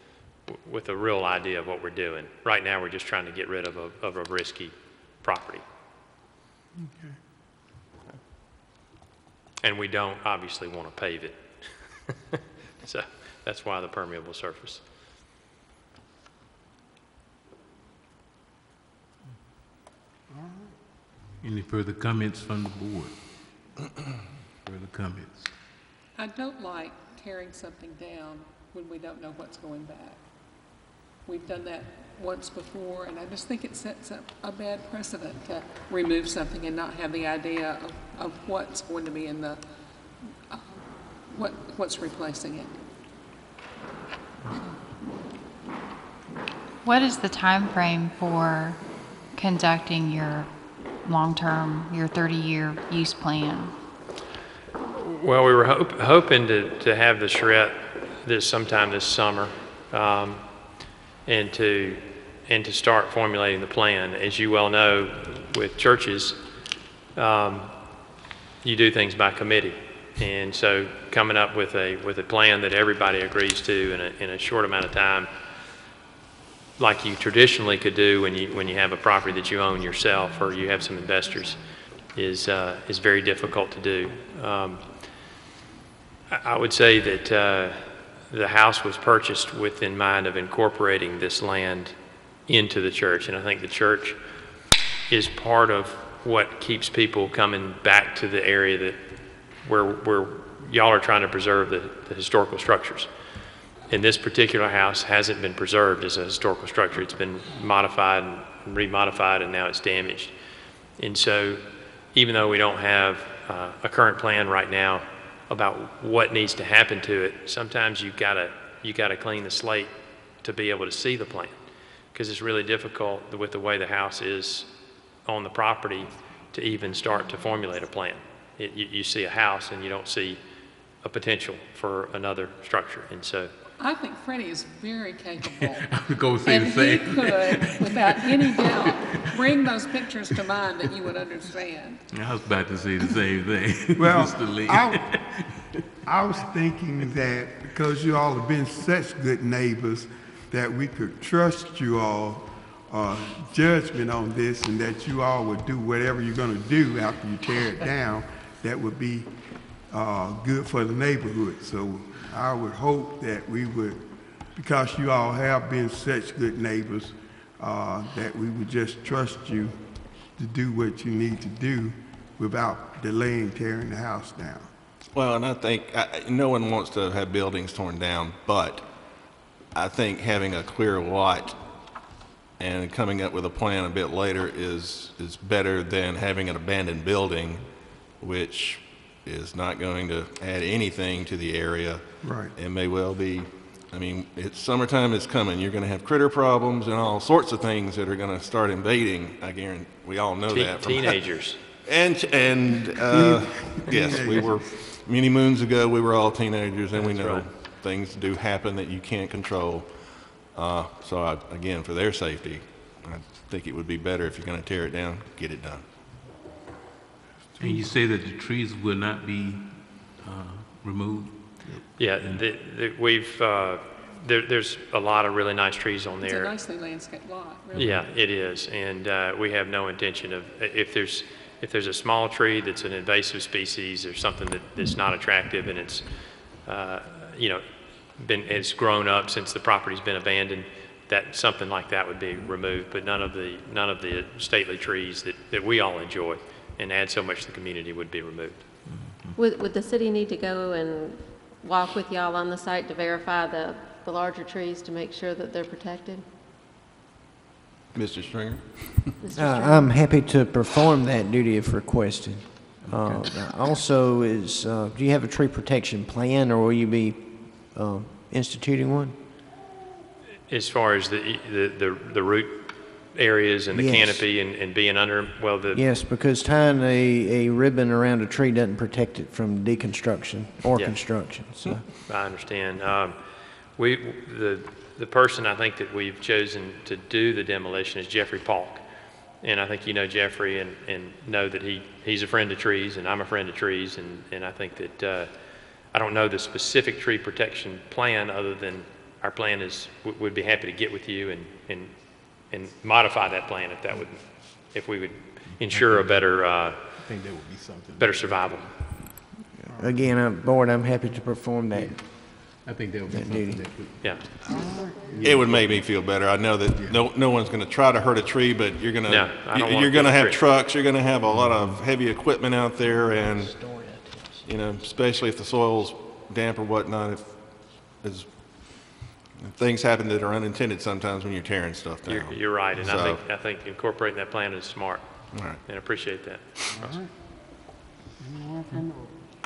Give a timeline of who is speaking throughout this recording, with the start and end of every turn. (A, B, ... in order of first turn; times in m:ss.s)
0:00.5-0:05.6 A
0:06.8-0:07.2 B
0:09.6-0:12.1 A
0:12.8-0:14.8 A
0:21.4-0:23.2 C
0:24.6-0:25.5 C
0:26.2-0:30.2 D
0:31.2-0:39.6 D
0:40.5-0:42.7 D
0:46.8-0:48.8 E
0:49.3-0:50.5 E
0:51.0-0:53.7 E
0:54.9-1:00.7 A
1:01.2-1:06.4 A
1:07.2-1:07.8 A
1:08.6-1:15.3 A
1:16.8-1:25.1 A
1:26.3-1:34.2 A
1:35.1-1:39.0 A
1:39.5-1:43.1 A
1:43.9-1:50.3 A
1:51.0-2:01.6 A
2:02.1-2:04.7 A
2:05.2-2:10.4 A
2:11.0-2:13.5 A
2:13.8-2:22.0 D
2:15.4-2:19.6 C
2:22.1-2:25.7 C
2:24.0-2:25.4 B
2:26.0-2:54.7 B
2:55.1-3:01.6 F
3:02.6-3:35.9 F
3:12.2-3:12.5 B
3:20.5-3:21.6 A
3:23.1-3:24.6 B
3:26.9-3:27.5 A
3:37.5-3:37.8 B
3:37.6-3:42.4 C
3:42.0-3:46.5 A
3:46.2-3:48.1 D
3:47.7-4:08.6 A
4:08.9-4:09.4 C
4:09.4-4:16.2 G
4:17.9-4:19.1 F
4:19.2-4:20.0 G
4:19.3-4:29.2 H
4:22.8-4:23.2 C
4:30.5-4:35.8 A
4:33.7-4:34.2 H
4:35.7-4:41.9 H
4:40.8-4:48.8 A
4:49.4-4:55.3 A
4:55.8-5:06.8 A
5:05.6-5:06.1 C
5:07.0-5:08.6 C
5:08.0-5:08.7 A
5:09.7-5:09.9 B
5:09.7-5:12.4 H
5:11.7-5:15.8 C
5:13.1-5:13.9 H
5:15.2-5:23.9 F
5:16.8-5:17.0 C
5:19.1-5:20.4 A
5:23.4-5:24.4 H
5:24.4-5:33.2 F
5:32.1-5:37.0 A
5:35.3-5:35.6 F
5:36.8-5:37.1 B
5:38.3-5:39.0 B